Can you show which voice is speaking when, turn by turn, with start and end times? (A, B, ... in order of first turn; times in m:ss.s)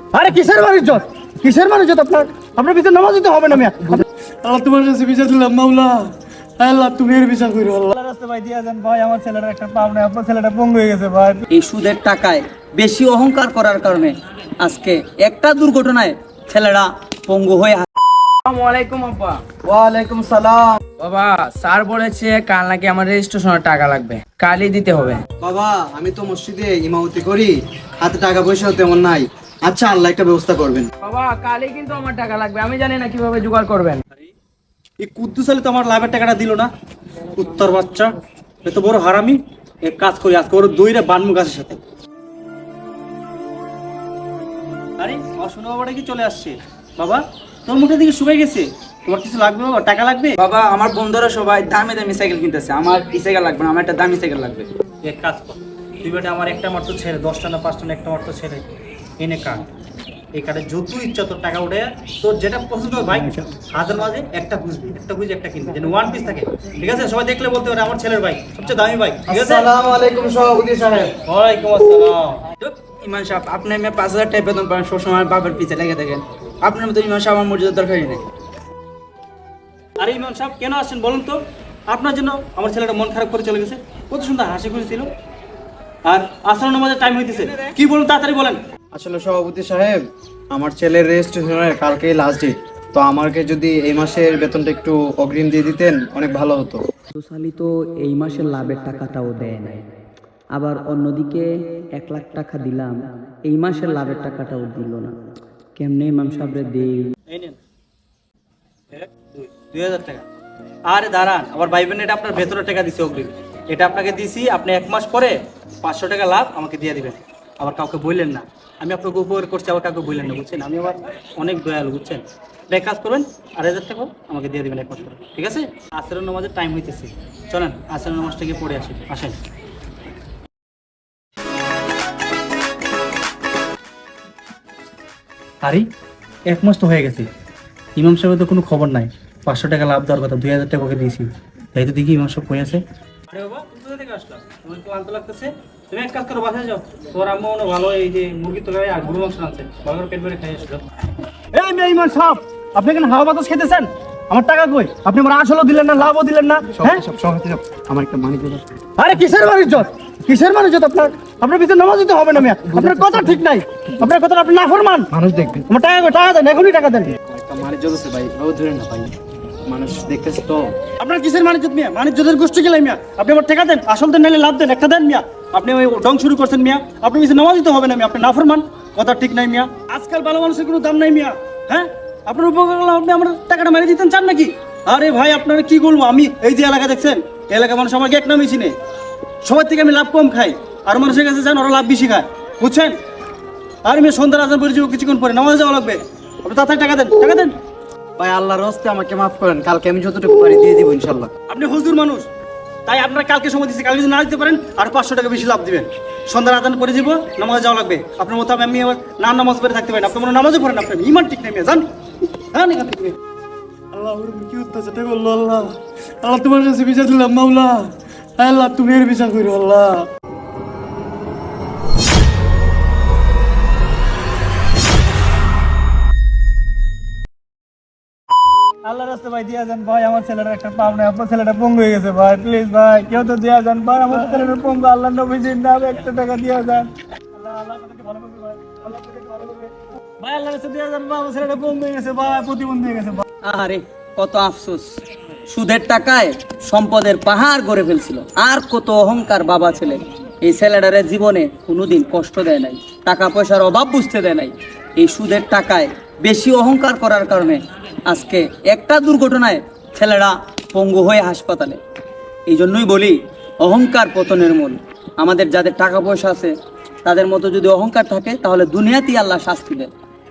0:00.1-0:11.4 A
0:11.5-0:17.8 B
0:18.4-0:19.4 C
0:19.6-0:20.8 D
0:21.0-0:25.2 C
0:25.4-0:30.9 D
0:31.0-0:34.0 C
0:35.0-0:36.7 A
0:37.3-0:38.1 A
0:38.6-0:41.8 A
0:45.0-0:50.4 A
0:50.4-0:54.7 C
0:55.0-0:58.7 A
0:59.2-0:59.6 A
1:00.3-1:09.7 A
1:09.3-1:11.1 D
1:11.1-1:12.5 A
1:12.6-1:18.2 C
1:20.0-1:25.1 A
1:26.0-1:28.6 A
1:28.9-1:30.0 D
1:30.5-1:36.8 D
1:37.2-1:39.8 B
1:40.5-1:45.1 B
1:45.8-1:47.1 B
1:47.3-1:47.6 A
1:48.9-1:50.2 A
1:50.9-2:09.4 A
2:16.5-2:17.3 A
2:18.0-2:30.8 A
2:31.5-2:37.0 A
2:36.7-2:38.6 D
2:39.0-2:45.1 A
2:42.5-2:43.4 D
2:45.1-2:45.7 D
2:45.7-2:47.1 A
2:47.2-2:49.1 D
2:49.6-2:50.8 D
2:51.0-3:08.7 A
3:09.4-3:12.9 A
3:13.8-3:17.5 A
3:18.2-3:21.3 D
3:21.5-3:22.3 A
3:22.8-3:31.9 A
3:32.4-3:33.2 A
3:33.9-3:40.1 A
3:48.8-4:03.2 A
4:03.4-4:05.0 B
4:05.5-4:21.8 B
4:22.5-4:26.5 B
4:27.0-4:29.9 B